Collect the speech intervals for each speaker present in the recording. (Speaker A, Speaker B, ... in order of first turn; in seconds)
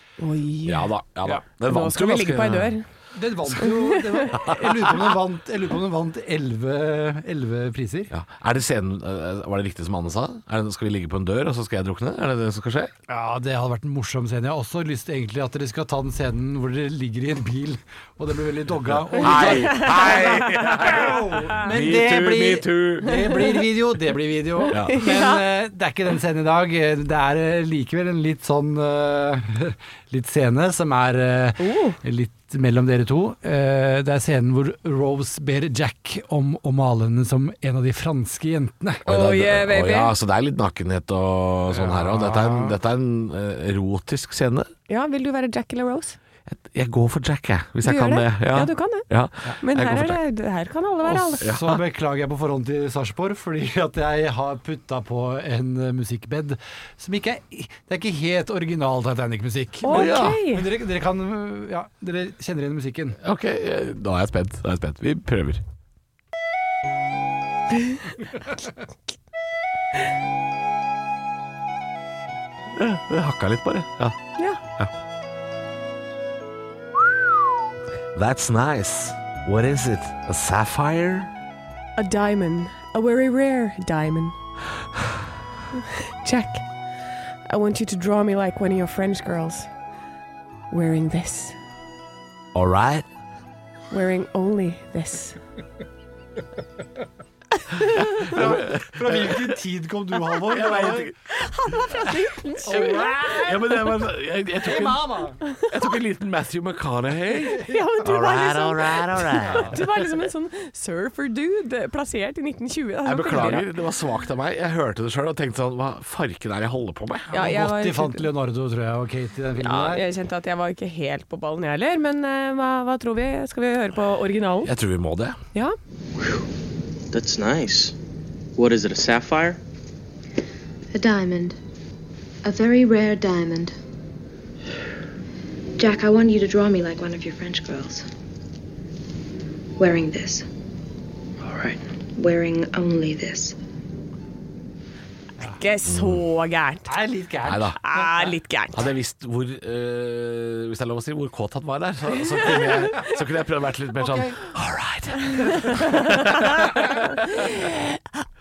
Speaker A: 0.2-0.9, 1.6-2.9, 3.6-4.6, 23.1-23.6, 24.6-25.4, 31.6-32.0, 39.1-40.1, 44.9-46.2, 47.8-49.0, 49.6-51.5, 59.8-60.7, 82.0-84.3, 85.8-86.6, 87.5-89.7, 90.7-91.5, 93.9-95.4, 101.3-103.5, 105.4-105.7, 107.6-113.7, 117.3-118.2, 119.6-124.7, 145.6-146.9, 147.8-148.8, 152.3-153.1, 155.7-158.0
Speaker B: 0.7-2.8, 4.4-4.7, 8.1-12.9, 18.9-23.3, 24.7-25.0, 39.0-44.7, 46.5-50.2, 51.4-51.8, 59.9-60.4, 63.2-65.6, 72.7-74.2, 78.1-81.3, 92.5-93.0, 97.9-99.6, 100.3-101.1, 102.7-109.8, 113.0-117.3, 124.6-125.4, 145.8-146.2, 147.4-147.8, 148.7-157.1
Speaker C: 3.1-8.1, 13.1-39.0, 41.7-42.8, 51.0-63.2, 98.2-101.1, 102.6-103.9, 104.6-105.4, 117.3-120.0, 146.9-148.3, 154.0-154.3
Speaker D: 127.1-127.9, 128.6-129.6, 141.4-141.8
Speaker E: 130.9-131.6, 132.4-133.7, 135.8-138.1, 139.8-140.5, 142.1-143.6